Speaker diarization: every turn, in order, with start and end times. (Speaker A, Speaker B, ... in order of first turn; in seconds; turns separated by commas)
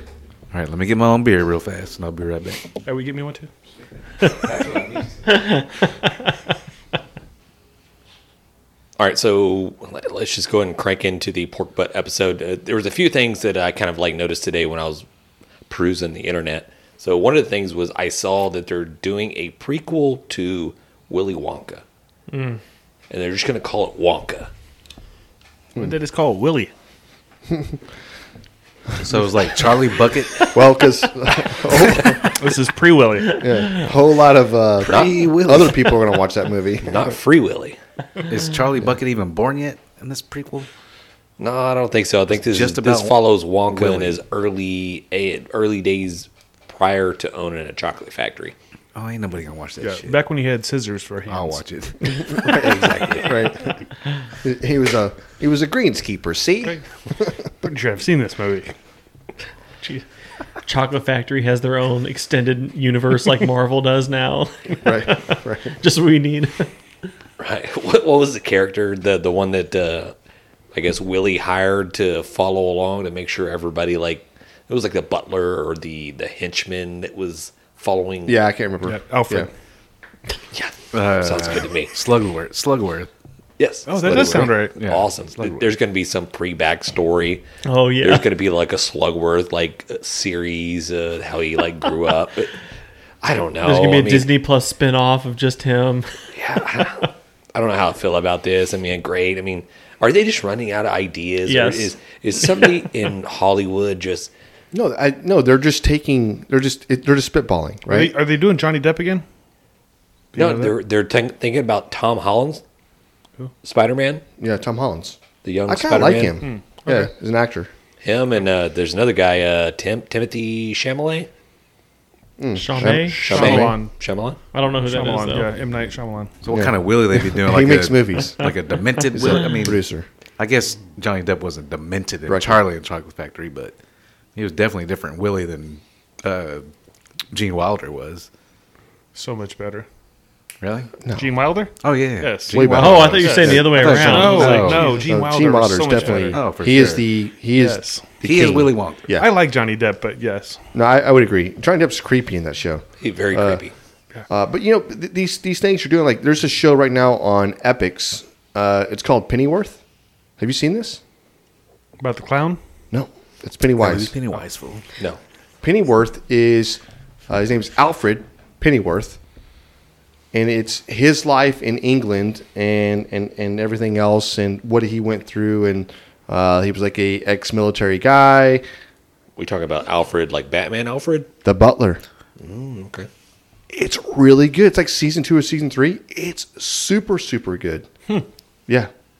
Speaker A: 0.5-2.7, Speaker B: 2.8-3.5, Speaker B: 4.3-4.8, Speaker A: 4.5-4.8, Speaker C: 9.0-15.1, Speaker C: 15.7-21.8, Speaker D: 22.3-22.6, Speaker C: 23.1-24.5, Speaker B: 25.8-26.7, Speaker E: 27.5-27.8, Speaker A: 29.0-30.6, Speaker E: 30.5-32.4, Speaker B: 32.2-33.5, Speaker E: 33.4-37.1, Speaker C: 34.8-35.5, Speaker A: 34.9-35.7, Speaker C: 36.8-37.8, Speaker A: 38.3-40.7, Speaker C: 41.4-48.5, Speaker A: 42.3-44.2, Speaker A: 49.0-50.2, Speaker B: 49.8-51.6, Speaker A: 51.3-52.7, Speaker E: 52.1-53.8, Speaker C: 52.4-53.5, Speaker E: 54.4-57.4, Speaker B: 57.6-58.8, Speaker D: 60.6-66.7, Speaker E: 64.8-65.8, Speaker C: 67.4-70.1, Speaker C: 70.7-78.4, Speaker E: 78.2-79.5, Speaker B: 78.9-79.5, Speaker C: 80.5-81.9, Speaker A: 80.9-83.1, Speaker C: 83.6-87.5, Speaker B: 83.9-84.8, Speaker A: 84.0-85.7, Speaker D: 87.6-88.3, Speaker C: 88.0-92.5, Speaker C: 93.2-94.3, Speaker D: 93.6-96.1, Speaker C: 96.3-104.3, Speaker D: 101.5-101.9, Speaker E: 104.7-108.1, Speaker B: 107.9-109.2, Speaker B: 110.3-110.7, Speaker C: 110.4-112.6, Speaker C: 113.6-114.2, Speaker E: 114.4-117.7, Speaker C: 115.4-116.4, Speaker B: 116.4-117.1, Speaker C: 118.0-121.3, Speaker E: 122.4-123.8, Speaker D: 122.6-123.7, Speaker B: 122.8-123.9, Speaker C: 123.2-124.4, Speaker D: 124.5-125.5, Speaker B: 124.9-126.3, Speaker A: 126.4-129.8, Speaker E: 126.5-128.5, Speaker E: 129.1-130.1, Speaker A: 130.4-133.8, Speaker E: 132.3-132.6, Speaker A: 134.3-136.7, Speaker A: 137.3-138.3, Speaker B: 139.1-139.9, Speaker A: 140.6-140.9, Speaker B: 141.1-146.5, Speaker A: 141.8-145.0, Speaker E: 142.5-144.1, Speaker D: 142.7-145.0, Speaker E: 144.8-149.3, Speaker A: 146.3-147.1, Speaker B: 147.6-148.1, Speaker A: 148.2-149.1, Speaker B: 149.1-150.6, Speaker E: 150.7-153.6, Speaker C: 153.0-153.7, Speaker E: 154.3-159.8, Speaker E: 160.4-161.0, Speaker B: 162.0-162.6, Speaker E: 162.9-164.1, Speaker A: 163.8-164.8, Speaker E: 165.6-169.2, Speaker E: 170.3-178.6, Speaker C: 179.4-181.3, Speaker E: 181.4-182.0, Speaker C: 182.4-183.1, Speaker E: 183.7-187.9